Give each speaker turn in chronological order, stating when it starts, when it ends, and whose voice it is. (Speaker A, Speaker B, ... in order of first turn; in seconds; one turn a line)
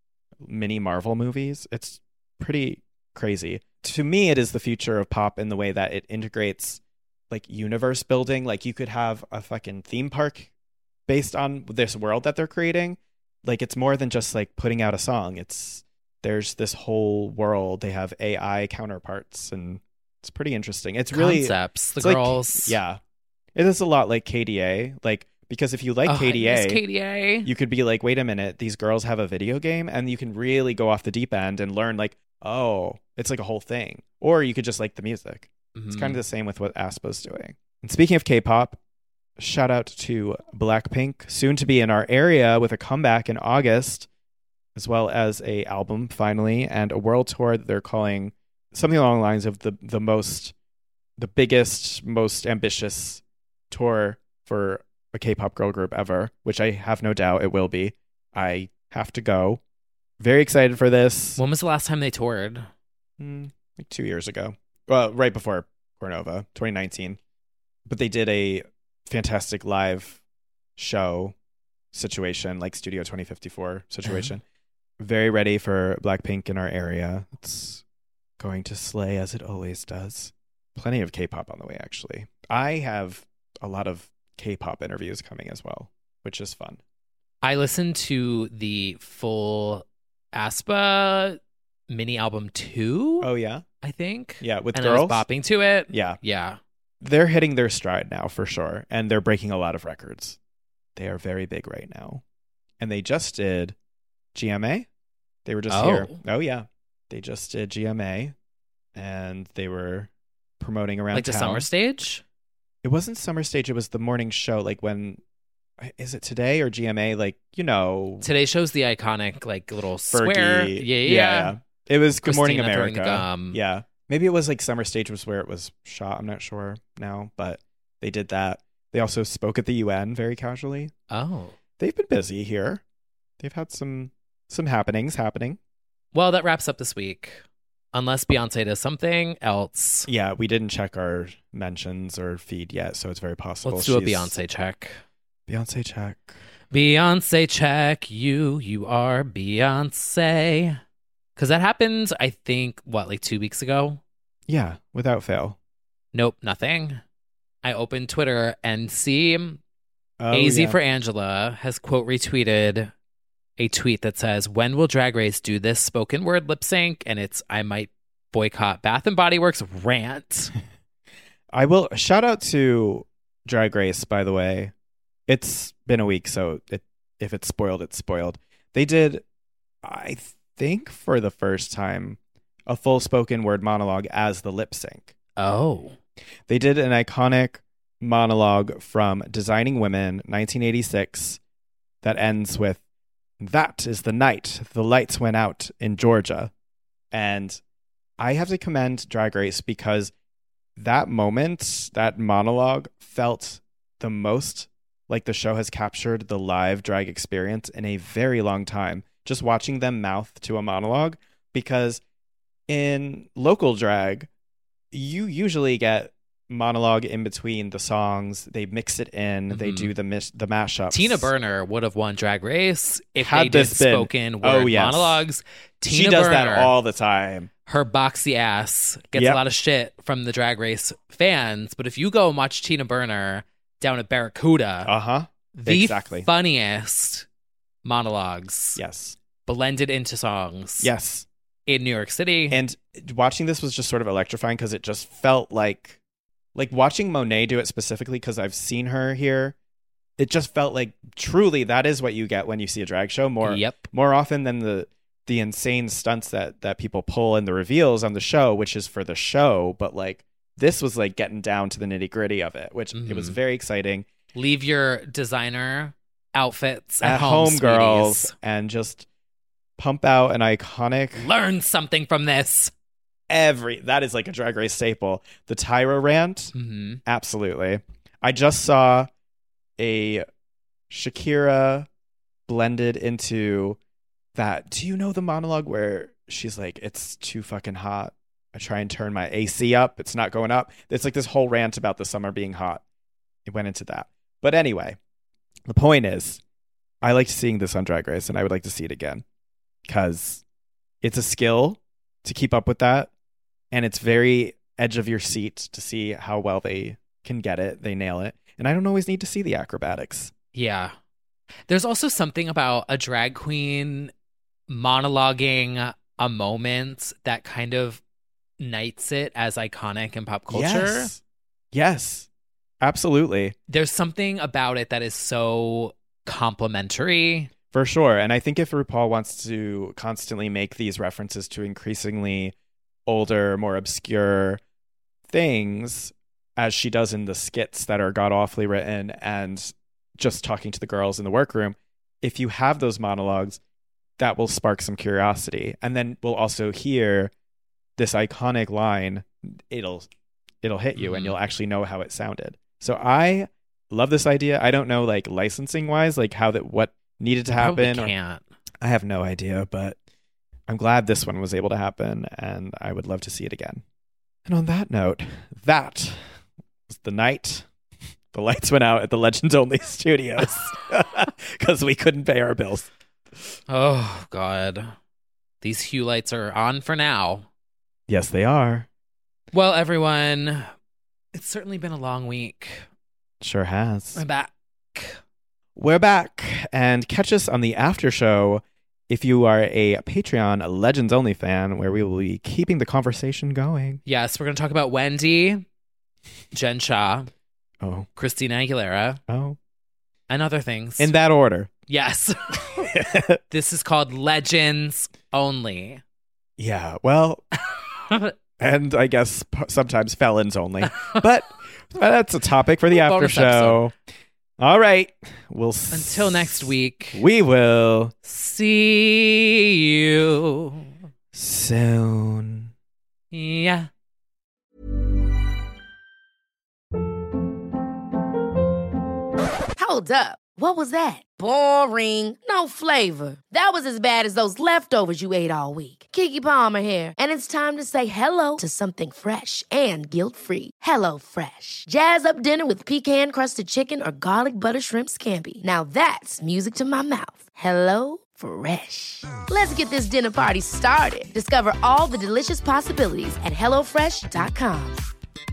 Speaker A: 0.4-10.5
Speaker A: 11.1-23.0
Speaker B: 21.1-22.8
Speaker A: 23.6-26.8
Speaker B: 26.1-27.5
Speaker A: 27.4-38.8
Speaker B: 35.8-36.2
Speaker A: 39.4-44.1
Speaker A: 44.8-50.5
Speaker A: 51.2-59.6
Speaker A: 60.2-61.4
Speaker B: 61.4-62.7
Speaker A: 63.2-67.2
Speaker A: 67.9-70.2
Speaker A: 70.8-71.3
Speaker A: 71.9-74.4
Speaker B: 74.1-74.3
Speaker A: 75.0-77.8
Speaker A: 78.4-86.8
Speaker B: 87.4-93.3
Speaker A: 93.2-93.7
Speaker B: 93.8-96.6
Speaker A: 94.4-95.2
Speaker A: 95.9-96.2
Speaker A: 97.0-100.4
Speaker A: 101.0-102.2
Speaker A: 102.8-103.8
Speaker A: 104.3-104.9
Speaker A: 105.5-108.3
Speaker B: 105.7-106.2
Speaker A: 109.0-111.7
Speaker B: 111.1-112.2
Speaker A: 112.8-115.2
Speaker A: 115.8-118.3
Speaker B: 118.2-121.5
Speaker A: 120.1-130.9
Speaker B: 122.2-123.6
Speaker B: 131.1-131.6
Speaker A: 131.8-132.8
Speaker A: 133.4-135.6
Speaker B: 136.1-140.1
Speaker A: 140.1-144.4
Speaker B: 143.6-145.0
Speaker A: 145.5-146.4
Speaker B: 146.7-150.8
Speaker B: 151.4-154.0
Speaker A: 154.5-155.6
Speaker B: 156.1-157.0
Speaker B: 157.6-159.6
Speaker A: 160.2-160.8
Speaker B: 160.3-162.9
Speaker B: 163.6-170.5
Speaker A: 171.5-174.7
Speaker A: 175.3-179.2
Speaker A: 179.8-185.1
Speaker B: 185.4-186.0
Speaker A: 186.5-191.4
Speaker A: 192.0-192.8
Speaker A: 193.4-196.5
Speaker A: 197.1-197.6
Speaker A: 198.2-200.1
Speaker A: 200.8-212.0
Speaker A: 212.7-214.3
Speaker A: 214.9-221.3
Speaker B: 219.5-219.9
Speaker B: 220.9-226.7
Speaker A: 223.2-225.2
Speaker A: 225.9-227.5
Speaker B: 227.7-234.9
Speaker A: 229.2-229.4
Speaker A: 234.8-236.3
Speaker B: 235.5-237.3
Speaker B: 237.8-238.8
Speaker A: 238.8-239.2
Speaker B: 239.4-240.9
Speaker A: 240.8-241.3
Speaker B: 241.7-242.6
Speaker A: 242.5-246.0
Speaker A: 246.6-249.6
Speaker A: 250.2-264.1
Speaker B: 253.4-253.9
Speaker B: 262.9-263.4
Speaker B: 264.4-268.3
Speaker A: 267.0-269.1
Speaker A: 269.8-271.3
Speaker B: 271.2-272.7
Speaker A: 273.3-276.5
Speaker B: 276.6-277.0
Speaker A: 277.1-279.1
Speaker A: 279.8-280.3
Speaker A: 280.9-281.9
Speaker A: 282.5-283.8
Speaker A: 284.4-292.8
Speaker A: 293.5-295.0
Speaker A: 295.7-296.4
Speaker A: 297.0-299.2
Speaker A: 299.9-300.4
Speaker A: 301.0-303.1
Speaker A: 303.7-310.3
Speaker B: 310.5-310.9
Speaker B: 311.7-314.1
Speaker B: 314.7-318.0
Speaker B: 318.6-321.1
Speaker A: 320.5-321.2
Speaker A: 321.7-322.3
Speaker A: 322.8-323.6
Speaker B: 323.7-327.5
Speaker A: 327.7-332.5
Speaker A: 333.1-334.6
Speaker A: 335.3-343.6
Speaker A: 344.2-347.3
Speaker A: 348.0-350.1
Speaker A: 350.6-358.1
Speaker B: 351.0-351.4
Speaker B: 357.5-358.4
Speaker A: 358.8-360.0
Speaker A: 360.7-363.8
Speaker A: 364.5-366.2
Speaker A: 366.9-367.7
Speaker A: 368.3-372.9
Speaker B: 373.7-374.9
Speaker B: 375.6-377.5
Speaker A: 378.1-378.9
Speaker B: 379.5-380.7
Speaker B: 381.3-382.9
Speaker A: 383.4-384.2
Speaker B: 384.1-385.2
Speaker A: 385.8-394.0
Speaker B: 394.1-395.6
Speaker B: 396.5-397.3
Speaker A: 397.8-398.1
Speaker B: 398.2-399.2
Speaker A: 399.3-399.6
Speaker B: 400.3-401.1
Speaker A: 401.0-401.7
Speaker B: 401.9-402.7
Speaker A: 402.7-403.4
Speaker B: 403.5-406.0
Speaker A: 406.6-407.4
Speaker B: 408.1-408.3
Speaker A: 408.6-413.9
Speaker B: 410.9-411.2
Speaker B: 412.9-413.8
Speaker A: 414.6-418.1
Speaker B: 415.9-417.2
Speaker B: 418.2-420.9
Speaker A: 421.3-422.7
Speaker B: 423.3-423.9
Speaker C: 429.8-455.0